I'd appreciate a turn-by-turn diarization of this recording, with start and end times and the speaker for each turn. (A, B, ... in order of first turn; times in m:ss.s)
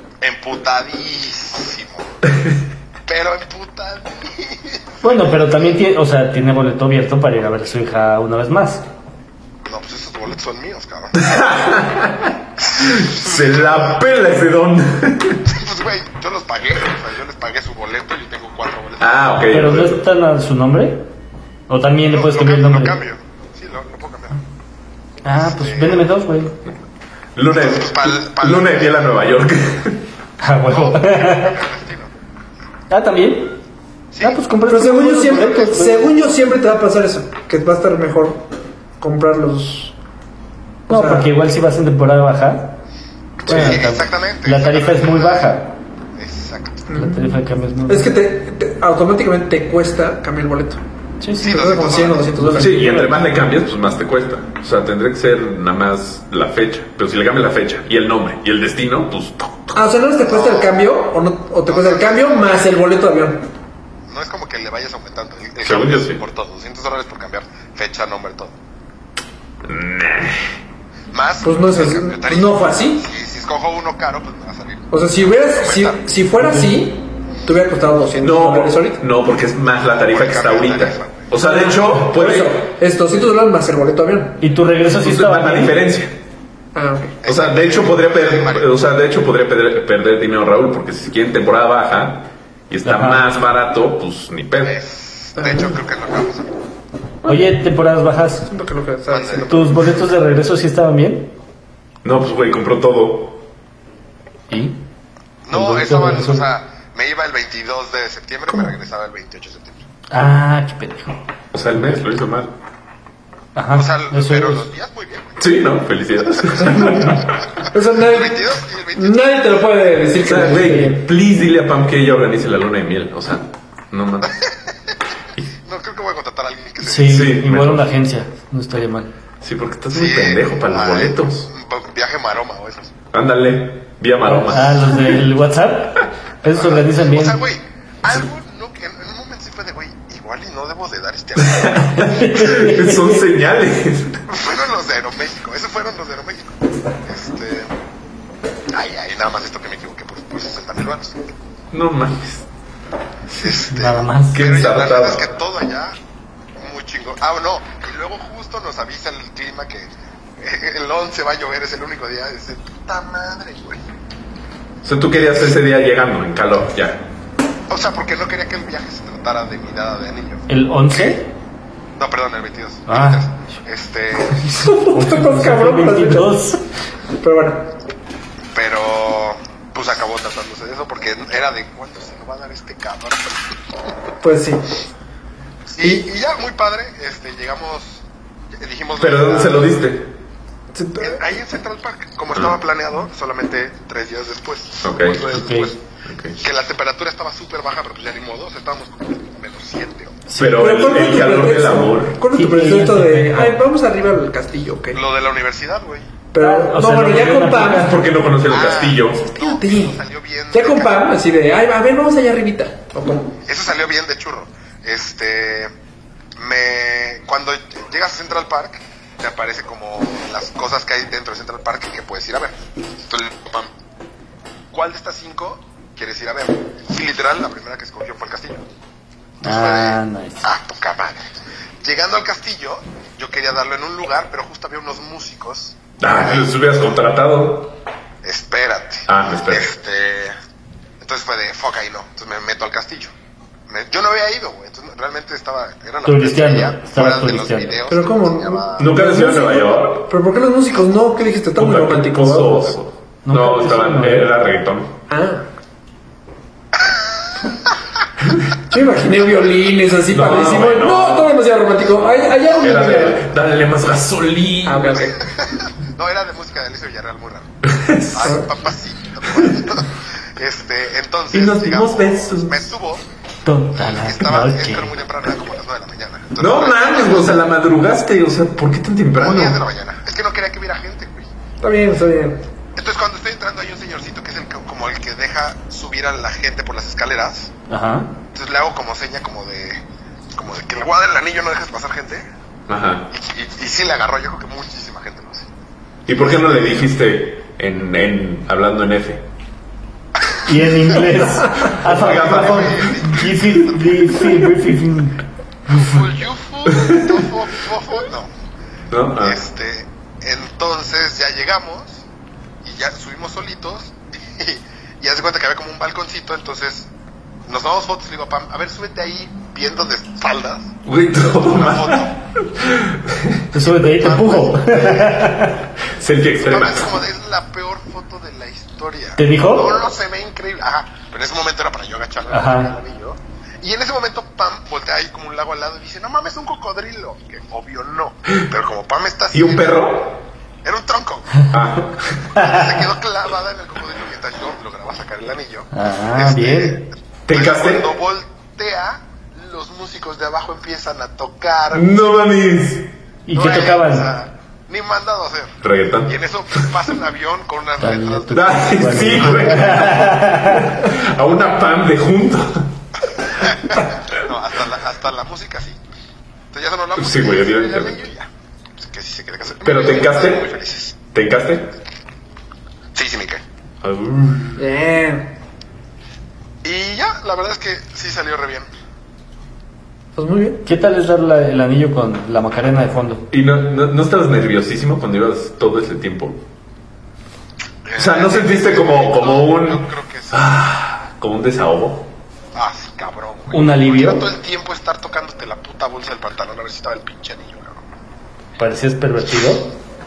0:00.2-0:02.2 A
0:03.0-0:05.3 A
0:05.0-0:08.8 B
0:09.6-0:11.4 A
0:11.2-0:15.4 C
0:12.6-0:14.0 A
0:15.4-0:19.3 A
0:19.0-0:20.0 C
0:19.5-0:21.0 B
0:21.7-0:23.0 B
0:22.1-0:24.4 A
0:25.2-0:26.6 B
0:25.4-0:26.1 A
0:27.4-0:30.0 C
0:27.5-0:29.1 A
0:30.4-0:31.6 B
0:30.6-0:32.1 A
0:32.9-0:33.6 B
0:34.1-0:34.4 A
0:34.2-0:36.2 B
0:34.6-0:38.4 D
0:39.0-0:39.9 D
0:40.9-0:42.8 B
0:40.9-0:41.3 D
0:43.5-0:45.6 A
0:43.5-0:45.7 B
0:46.2-0:46.9 A
0:46.9-0:50.8 D
0:46.9-0:48.1 B
0:51.2-0:51.7 B
0:51.4-0:52.3 A
0:51.4-0:53.2 D
0:52.4-0:53.3 B
0:52.5-0:59.8 C
0:59.7-1:03.4 D
1:00.3-1:00.7 A
1:01.7-1:02.5 A
1:04.1-1:08.6 A
1:05.6-1:06.2 C
1:09.6-1:10.6 C
1:11.1-1:14.9 A
1:11.4-1:13.0 D
1:14.9-1:19.0 D
1:15.5-1:16.0 A
1:16.4-1:16.8 B
1:18.2-1:22.6 C
1:20.1-1:21.3 A
1:21.4-1:24.4 D
1:24.4-1:25.8 B
1:25.0-1:26.1 C
1:26.8-1:27.2 D
1:27.2-1:28.7 A
1:27.2-1:34.8 C
1:32.8-1:33.2 B
1:34.6-1:36.5 A
1:35.4-1:35.8 D
1:37.2-1:38.5 B
1:38.5-1:39.7 D
1:39.1-1:39.6 A
1:39.4-1:41.3 B
1:42.0-1:43.4 C
1:44.5-1:44.8 B
1:45.5-1:49.8 A
1:45.5-1:46.5 B
1:50.1-1:51.2 B
1:51.5-1:52.5 C
1:53.5-1:54.7 B
1:53.7-1:55.5 A
1:55.4-1:57.4 C
1:56.4-1:56.8 A
1:56.6-1:57.2 D
1:57.7-2:01.0 D
1:58.0-1:59.2 A
2:00.2-2:04.3 C
2:04.2-2:04.7 A
2:05.6-2:07.4 A
2:06.8-2:09.1 B
2:07.0-2:07.9 C
2:09.4-2:11.5 C
2:09.9-2:12.9 A
2:13.1-2:15.2 C
2:14.2-2:17.4 B
2:16.5-2:22.1 A
2:21.4-2:24.2 C
2:22.0-2:23.2 B
2:24.3-2:27.7 A
2:28.7-2:31.2 A
2:31.7-2:32.5 C
2:33.3-2:36.0 A
2:33.5-2:34.7 B
2:34.3-2:35.3 C
2:36.6-2:43.8 A
2:44.8-2:47.0 C
2:47.7-2:51.2 A
2:50.5-2:51.3 B
2:52.0-2:54.7 A
2:52.9-2:53.3 B
2:54.4-2:56.6 B
2:54.6-2:56.3 D
2:57.2-2:57.7 D
2:58.5-3:03.4 A
3:04.2-3:04.7 D
3:05.8-3:09.8 A
3:05.8-3:06.0 D
3:09.0-3:10.1 C
3:10.7-3:11.2 D
3:11.0-3:15.8 A
3:14.8-3:15.3 C
3:15.3-3:15.7 B
3:16.0-3:16.4 C
3:16.4-3:20.2 A
3:20.3-3:20.8 B
3:20.4-3:22.2 C
3:20.4-3:25.0 D
3:22.2-3:23.6 B
3:24.9-3:26.1 A
3:26.3-3:28.0 D
3:26.4-3:28.0 B
3:27.5-3:29.2 C
3:28.4-3:31.1 A
3:29.3-3:30.0 D
3:30.5-3:33.4 D
3:33.4-3:35.7 A
3:36.4-3:42.6 A
3:43.1-3:43.7 A
3:44.7-3:48.6 A
3:49.4-3:51.3 A
3:49.4-3:50.5 B
3:51.8-3:56.5 A
3:56.0-3:57.7 C
3:58.2-4:00.4 A
3:59.0-3:59.6 C
4:01.0-4:03.1 A
4:03.7-4:09.0 A
4:06.0-4:07.8 B
4:07.9-4:12.8 D
4:08.8-4:10.1 C
4:11.6-4:14.9 C
4:13.2-4:14.3 B
4:15.1-4:15.5 D
4:16.8-4:17.0 A
4:18.7-4:23.2 D
4:20.1-4:21.3 C
4:21.9-4:25.1 C
4:22.7-4:23.1 A
4:24.6-4:25.2 D
4:25.0-4:27.5 A
4:27.6-4:28.4 C
4:28.1-4:33.0 A
4:31.3-4:32.6 C
4:33.4-4:34.9 B
4:33.8-4:37.3 A
4:36.4-4:39.6 C
4:39.2-4:41.3 A
4:41.6-4:42.4 D
4:42.8-4:47.5 A
4:47.7-4:48.1 B
4:48.3-4:49.8 A
4:50.3-4:52.2 A
4:52.7-4:53.1 C
4:53.1-4:55.5 A
4:56.1-4:59.2 C
4:56.1-4:56.8 A
5:00.4-5:06.0 B
5:01.5-5:03.1 C
5:01.9-5:04.4 A
5:05.7-5:08.3 A
5:06.7-5:07.2 C
5:08.9-5:09.4 C
5:09.2-5:12.0 A
5:12.6-5:16.9 A
5:17.5-5:20.7 A
5:20.8-5:23.5 C
5:21.4-5:22.1 A
5:23.5-5:25.6 B
5:23.8-5:25.5 A
5:25.9-5:27.0 C
5:26.4-5:39.9 A
5:29.2-5:29.9 B
5:32.3-5:32.7 B
5:39.3-5:40.2 C
5:40.6-5:41.5 A
5:41.5-5:42.4 C
5:42.3-5:51.9 A
5:42.4-5:42.7 B
5:45.7-5:46.8 B
5:47.3-5:47.9 C
5:51.7-5:52.9 C
5:53.3-5:54.1 B
5:53.3-6:00.2 A
5:55.6-5:56.7 C
5:57.8-6:00.8 B
5:58.3-6:02.7 C
6:03.3-6:05.8 A
6:06.5-6:11.0 A
6:07.0-6:08.0 C
6:09.6-6:10.5 C
6:11.1-6:11.7 C
6:12.9-6:13.4 A
6:13.8-6:14.7 C
6:14.6-6:15.3 D
6:16.6-6:18.7 A
6:20.2-6:20.6 D
6:20.6-6:23.2 B
6:23.3-6:26.4 C
6:27.8-6:30.5 A
6:28.0-6:32.1 C
6:32.5-6:37.8 A
6:33.5-6:34.3 B
6:38.6-6:39.7 B